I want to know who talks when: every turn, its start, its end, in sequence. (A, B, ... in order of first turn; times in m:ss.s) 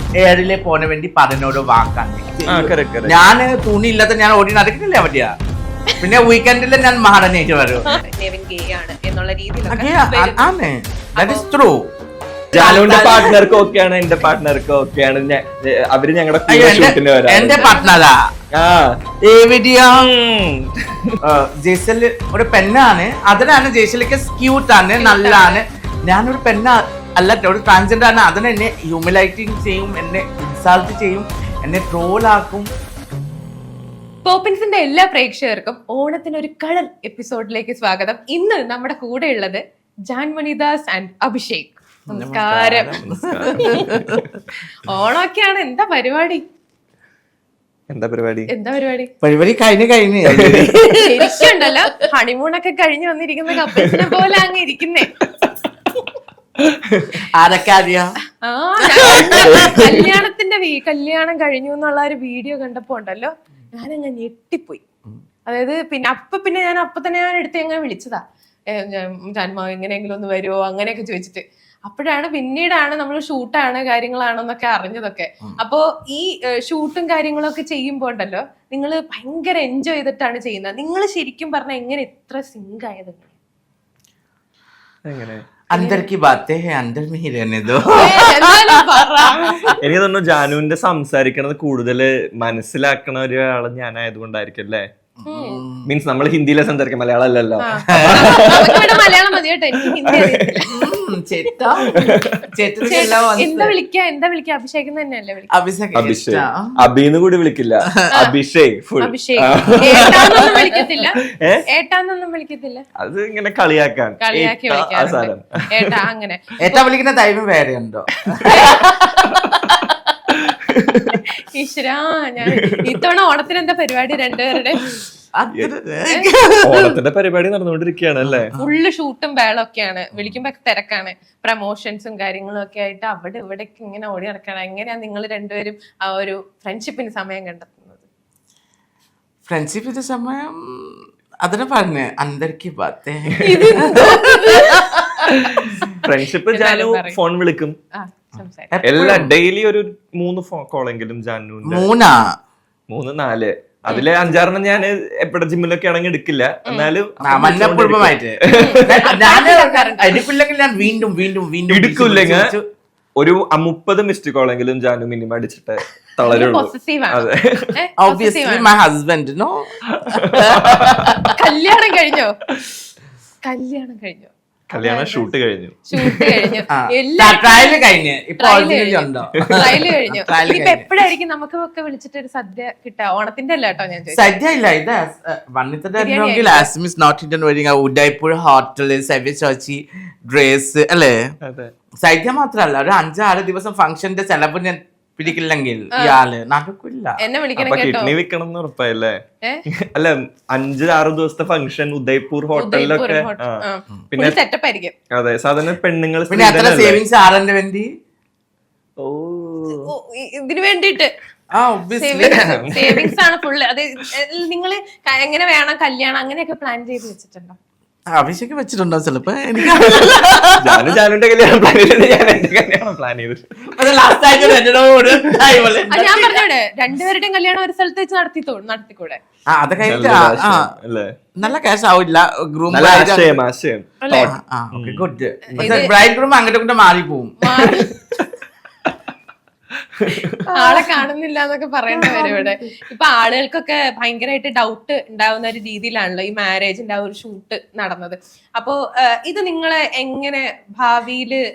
0:00.2-0:05.3 A
0:02.5-0:03.2 B
0:06.0-0:07.9 A
0:07.9-0:10.5 C
0:09.7-0:11.8 A
0:11.2-0:11.5 C
0:12.5-0:17.7 B
0:12.5-0:13.6 A
0:16.5-0:18.2 A
0:17.5-0:18.0 C
0:18.5-0:19.0 B
0:19.2-0:20.1 A
0:20.0-0:21.2 B
0:21.2-0:32.7 A
0:25.0-0:25.6 C
0:34.2-0:43.0 C
0:42.1-0:44.2 A
0:42.8-0:44.3 B
0:43.6-0:43.9 C
0:44.8-0:46.4 C
0:47.9-0:48.5 B
0:48.5-0:49.1 C
0:49.2-0:51.4 A
0:50.2-0:50.7 B
0:51.0-0:55.1 C
0:53.8-0:54.1 B
0:56.6-0:57.2 B
0:57.3-0:58.2 A
0:58.4-1:04.8 C
0:58.8-0:59.9 A
0:59.0-1:00.1 B
1:05.5-1:08.2 C
1:08.7-1:23.3 C
1:25.0-1:25.4 B
1:25.7-1:28.7 A
1:25.7-1:26.1 C
1:28.0-1:29.8 C
1:29.8-1:34.8 B
1:35.2-1:35.9 A
1:35.3-1:35.6 C
1:35.8-1:39.0 B
1:37.6-1:40.9 C
1:37.9-1:38.6 A
1:40.0-1:40.6 B
1:40.6-1:42.0 A
1:41.6-1:42.2 C
1:41.8-1:43.2 B
1:42.5-1:43.7 A
1:42.8-1:45.5 C
1:45.5-1:46.7 A
1:45.9-1:51.6 B
1:48.1-1:48.4 C
1:49.0-1:52.8 C
1:49.6-1:50.1 A
1:53.0-1:56.0 B
1:54.2-1:56.8 C
1:56.6-1:58.9 A
1:58.4-2:00.0 C
2:00.3-2:01.2 B
2:01.1-2:04.8 C
2:02.4-2:03.0 B
2:05.4-2:07.0 A
2:06.6-2:08.5 B
2:08.2-2:08.7 A
2:08.6-2:18.0 C
2:19.4-2:25.9 A
2:23.4-2:25.4 C
2:23.4-2:24.0 B
2:25.4-2:27.8 B
2:26.5-2:27.2 C
2:27.9-2:28.7 C
2:28.7-2:29.3 A
2:28.8-2:31.9 B
2:31.7-2:32.3 A
2:32.9-2:39.2 B
2:37.2-2:42.6 A
2:38.5-2:40.3 C
2:41.7-2:42.5 B
2:43.2-2:47.7 B
2:46.2-2:48.7 C
2:48.0-2:51.3 A
2:49.9-2:51.2 B
2:51.3-2:52.4 C
2:53.4-2:55.3 C
2:54.7-2:56.6 B
2:55.9-2:57.8 C
2:56.7-3:00.9 A
2:58.4-3:04.3 C
2:59.5-2:59.8 B
3:04.1-3:11.2 A
3:06.0-3:06.7 C
3:11.4-3:11.7 B
3:12.0-3:17.2 A
3:17.2-3:18.1 C
3:17.6-3:19.2 B
3:19.9-3:23.6 B
3:22.6-3:24.9 C
3:24.1-3:24.4 B
3:25.1-3:27.0 B
3:26.3-3:27.9 A
3:29.0-3:29.9 B
3:29.8-3:31.1 C
3:31.5-3:32.6 A
3:31.9-3:37.6 C
3:32.2-3:33.2 B
3:38.1-3:40.9 A
3:40.0-3:43.4 B
3:43.7-3:46.4 A
3:45.9-3:49.2 C
3:49.5-3:50.7 A
3:49.8-3:51.1 B
3:51.4-3:53.4 A
3:52.7-3:55.8 B
3:54.0-3:54.3 C
3:54.2-3:57.4 A
3:55.5-3:55.9 C
3:57.4-3:58.0 C
4:00.0-4:00.4 B
4:00.5-4:11.4 C
4:02.0-4:02.6 A